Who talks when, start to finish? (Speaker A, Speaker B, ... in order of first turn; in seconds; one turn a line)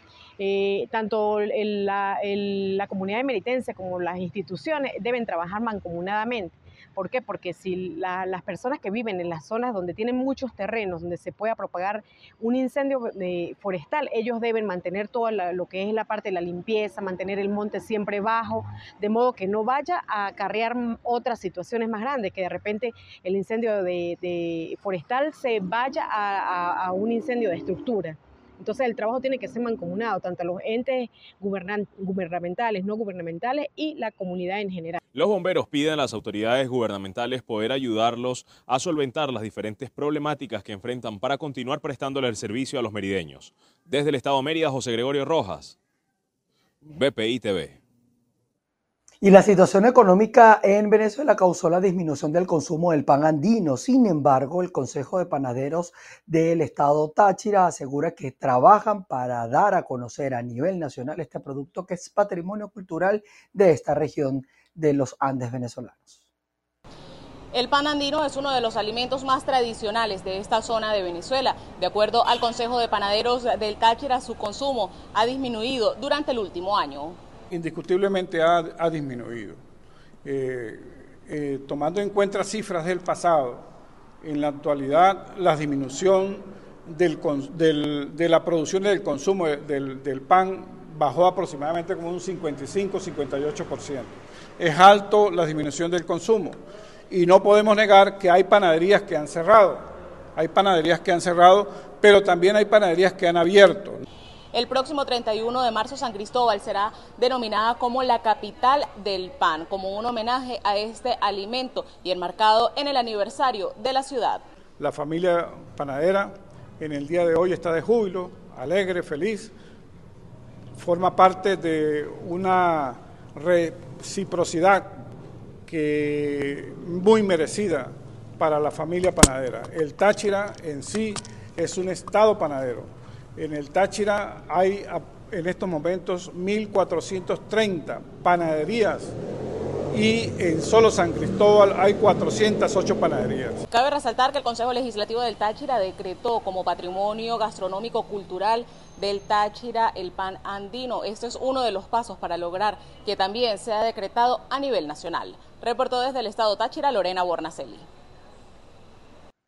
Speaker A: 0.4-35.0
Speaker B: 35.1-45.8
Speaker B: 46.9-47.8
Speaker C: 49.2-66.3
Speaker D: 67.5-77.2
Speaker E: 77.5-79.6
Speaker E: 80.2-83.7
Speaker E: 84.2-104.0
Speaker D: 104.5-114.4
Speaker E: 114.8-119.5
Speaker E: 120.8-125.1
Speaker E: 125.7-139.2
Speaker E: 139.9-143.6
Speaker D: 143.7-157.9